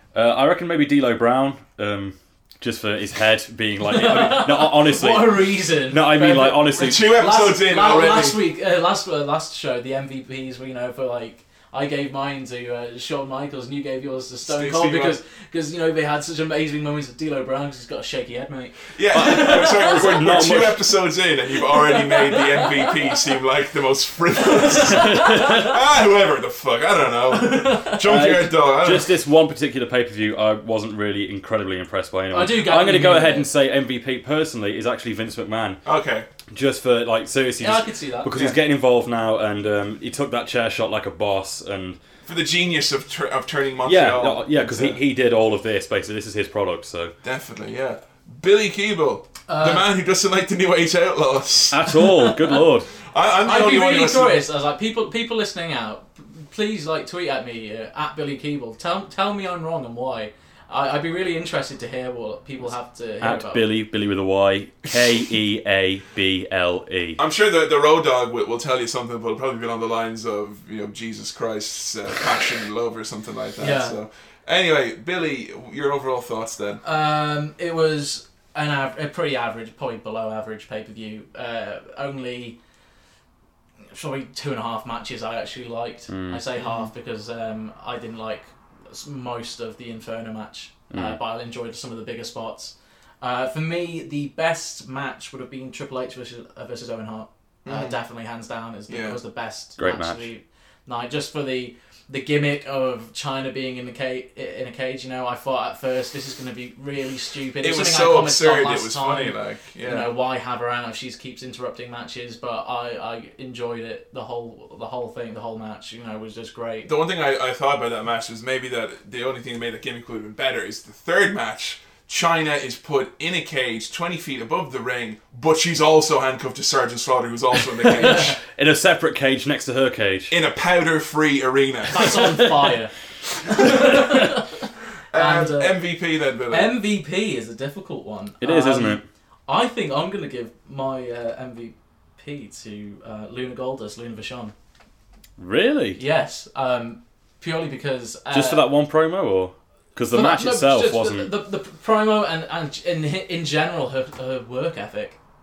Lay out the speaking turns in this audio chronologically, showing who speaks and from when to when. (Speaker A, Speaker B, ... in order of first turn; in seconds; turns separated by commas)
Speaker A: 0.1-7.1, Speaker B: 3.9-20.2, Speaker C: 6.7-8.4, Speaker C: 14.5-15.2, Speaker C: 18.9-29.2, Speaker A: 19.1-20.9, Speaker B: 21.8-22.7, Speaker B: 24.9-25.7, Speaker A: 25.0-25.5, Speaker B: 27.3-28.0, Speaker A: 28.0-35.8, Speaker B: 32.3-33.5, Speaker C: 35.9-36.3, Speaker A: 36.5-42.0, Speaker B: 37.6-38.3, Speaker C: 42.2-45.0, Speaker A: 43.8-47.1, Speaker C: 47.2-51.9, Speaker B: 49.5-49.9, Speaker A: 51.7-52.9, Speaker B: 52.0-52.5, Speaker C: 53.0-54.4, Speaker B: 53.4-63.6, Speaker A: 63.2-67.2, Speaker C: 67.2-76.8, Speaker B: 73.6-74.0, Speaker B: 76.8-82.6, Speaker B: 83.9-116.9, Speaker A: 86.1-86.4, Speaker C: 86.6-86.9, Speaker A: 90.9-91.2, Speaker C: 97.7-98.0, Speaker C: 98.9-99.2, Speaker A: 99.8-100.3, Speaker C: 107.6-110.1, Speaker C: 116.8-128.4, Speaker A: 127.6-130.3, Speaker B: 128.0-128.3, Speaker C: 130.3-132.5, Speaker B: 131.9-132.9, Speaker C: 133.5-134.1, Speaker B: 133.5-134.5, Speaker C: 135.1-136.7, Speaker B: 135.1-135.8, Speaker B: 136.5-144.5, Speaker A: 138.4-139.0, Speaker A: 145.4-146.0, Speaker B: 146.0-148.7, Speaker A: 148.3-151.3, Speaker B: 150.1-155.2